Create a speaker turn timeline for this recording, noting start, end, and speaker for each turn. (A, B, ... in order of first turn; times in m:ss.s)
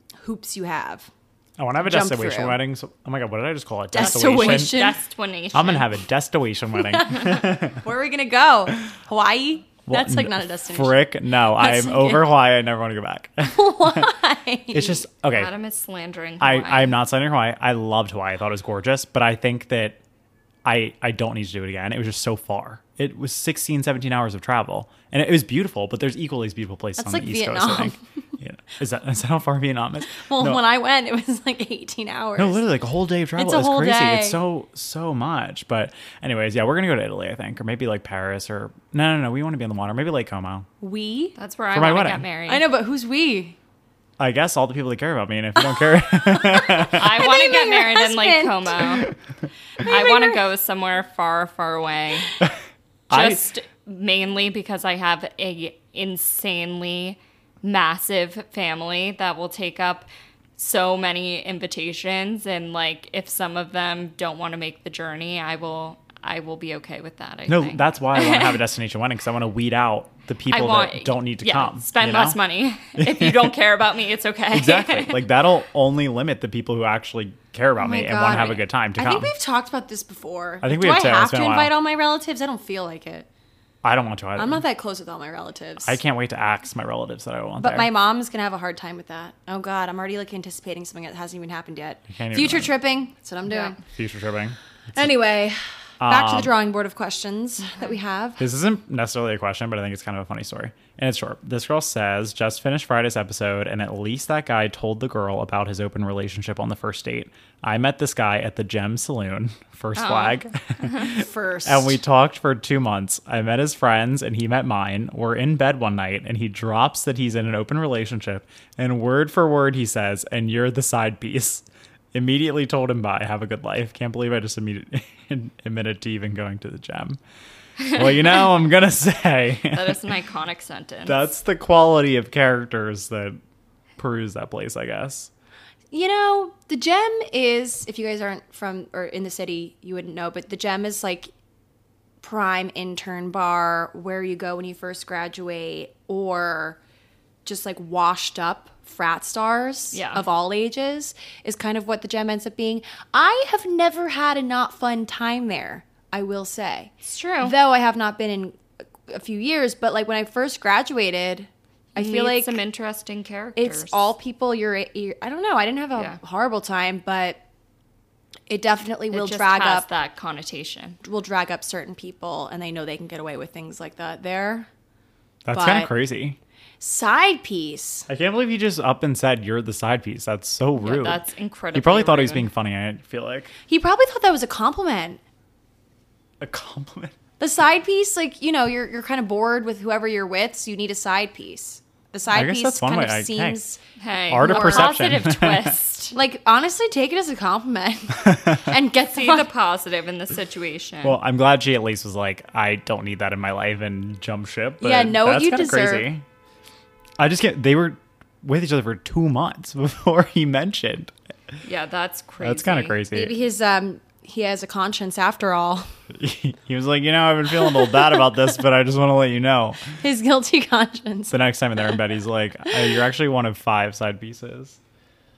0:00.2-0:01.1 A
0:01.6-0:04.9 B
0:01.8-0:02.6 A
0:03.9-0:05.0 A
0:04.0-0:05.9 C
0:05.5-0:07.8 B
0:06.8-0:12.3 A
0:09.9-0:14.1 B
0:13.4-0:15.0 A
0:14.7-0:15.5 B
0:15.3-0:17.0 C
0:16.4-0:20.0 B
0:20.6-0:30.6 B
0:27.0-0:28.0 A
0:30.1-0:32.6 A
0:32.4-0:40.7 B
0:33.4-0:34.4 A
0:40.8-0:41.4 A
0:41.4-0:42.6 C
0:41.7-0:42.2 B
0:42.5-0:43.6 A
0:44.2-0:47.1 B
0:46.2-0:49.1 A
0:46.9-0:49.1 C
0:49.8-0:52.4 C
0:49.8-0:50.4 A
0:53.1-0:53.5 B
0:53.1-1:08.6 C
1:07.5-1:12.4 B
1:10.5-1:15.3 C
1:13.0-1:13.5 B
1:14.5-1:19.3 B
1:17.8-1:23.3 A
1:20.6-1:21.8 B
1:23.8-1:24.6 B
1:24.4-1:26.0 A
1:25.8-1:27.9 B
1:27.6-1:33.8 A
1:32.1-1:32.8 B
1:33.5-1:33.7 C
1:33.9-1:35.1 B
1:35.0-1:38.4 A
1:36.0-1:36.5 B
1:38.4-2:07.2 B
1:50.0-1:50.4 C
1:51.2-1:52.0 A
2:07.9-2:10.0 B
2:09.7-2:11.3 C
2:11.1-2:13.4 B
2:14.0-2:15.3 B
2:15.9-2:21.3 A
2:22.2-2:26.8 A
2:27.4-2:42.6 A
2:29.9-2:30.2 C
2:37.1-2:37.6 C
2:42.0-2:44.1 C
2:43.6-2:47.4 A
2:48.5-2:49.9 A
2:49.1-2:51.0 C
2:51.0-2:54.7 A
2:55.4-2:56.4 B
2:55.5-2:55.9 A
2:56.8-2:58.1 A
2:58.1-3:01.2 B
3:00.8-3:02.5 C
3:01.7-3:03.5 B
3:03.7-3:05.2 A
3:06.4-3:07.2 B
3:07.4-3:13.8 A
3:12.3-3:13.6 B
3:14.0-3:16.2 C
3:14.3-3:15.8 B
3:14.4-3:15.0 A
3:16.1-3:19.5 A
3:19.1-3:21.2 C
3:21.0-3:26.2 B
3:24.8-3:26.1 A
3:27.2-3:31.1 B
3:31.6-3:33.0 C
3:32.4-3:33.4 B
3:33.1-3:35.9 A
3:36.1-3:40.0 B
3:37.6-3:38.4 A
3:40.0-3:41.4 A
3:41.3-3:44.8 B